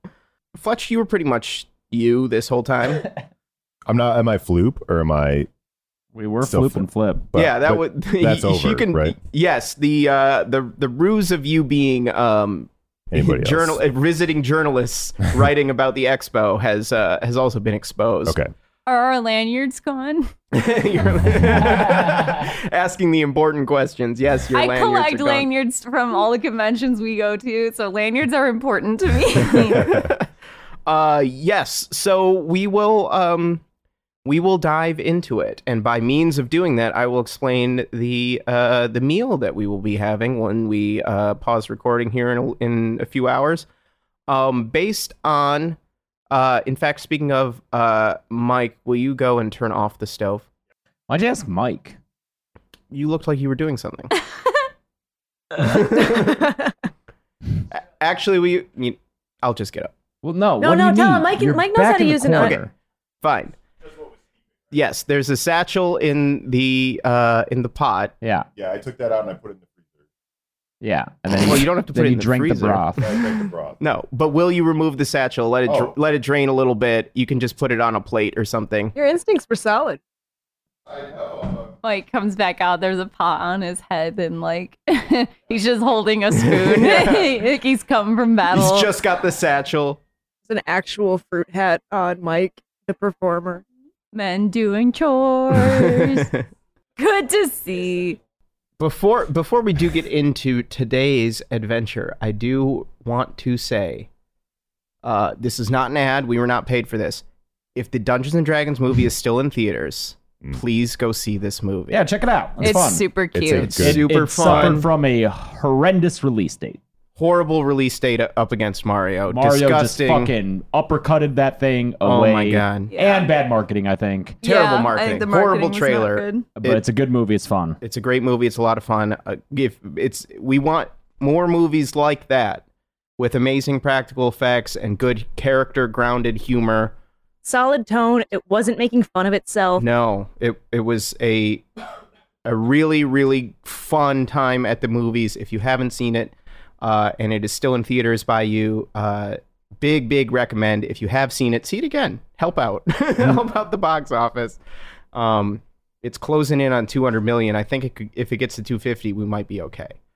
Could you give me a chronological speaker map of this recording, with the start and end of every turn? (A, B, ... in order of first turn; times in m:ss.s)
0:00.6-0:03.1 A
0:03.9-0:05.5 B
0:06.1-0:07.3 C
0:06.4-0:09.2 B
0:07.3-0:18.4 A
0:13.1-0:13.8 B
0:18.2-0:18.5 B
0:18.8-0:20.3 D
0:20.5-0:25.5 A
0:21.1-0:21.8 B
0:21.6-0:22.5 C
0:24.5-0:30.0 D
0:29.5-0:30.2 A
0:30.8-0:33.6 A
0:34.2-0:43.6 A
0:44.3-0:45.8 A
0:46.3-0:50.4 A
0:51.1-0:52.0 C
0:52.9-0:54.1 A
0:55.6-0:56.5 A
0:56.5-0:56.7 E
0:57.7-0:59.9 A
1:00.2-1:02.7 C
1:00.6-1:02.6 E
1:02.4-1:02.7 A
1:03.2-1:03.6 A
1:04.7-1:08.1 A
1:08.2-1:08.5 C
1:08.6-1:09.9 B
1:10.8-1:13.1 C
1:11.4-1:12.9 A
1:13.0-1:13.8 B
1:13.8-1:18.9 A
1:15.6-1:15.9 B
1:18.9-1:20.0 E
1:20.9-1:21.7 B
1:21.8-1:28.9 D
1:26.5-1:27.4 A
1:28.5-1:30.0 A
1:30.5-1:33.6 E
1:34.1-1:36.4 D
1:35.5-1:36.4 A
1:37.0-1:38.2 D
1:38.8-1:44.1 A
1:45.0-1:47.2 A
1:47.7-1:52.0 A
1:51.9-1:53.1 C
1:52.6-1:53.7 D
1:53.3-1:54.7 B
1:53.6-1:54.9 A
1:53.7-1:56.8 C
1:57.2-2:00.3 A
1:59.3-2:04.4 C
2:02.0-2:02.9 A
2:02.9-2:03.3 D
2:04.4-2:06.5 D
2:04.4-2:06.8 A
2:06.6-2:07.8 C
2:07.8-2:12.6 A
2:13.2-2:16.9 A
2:17.4-2:19.8 E
2:19.8-2:21.6 A
2:22.4-2:34.6 A
2:35.1-2:39.9 A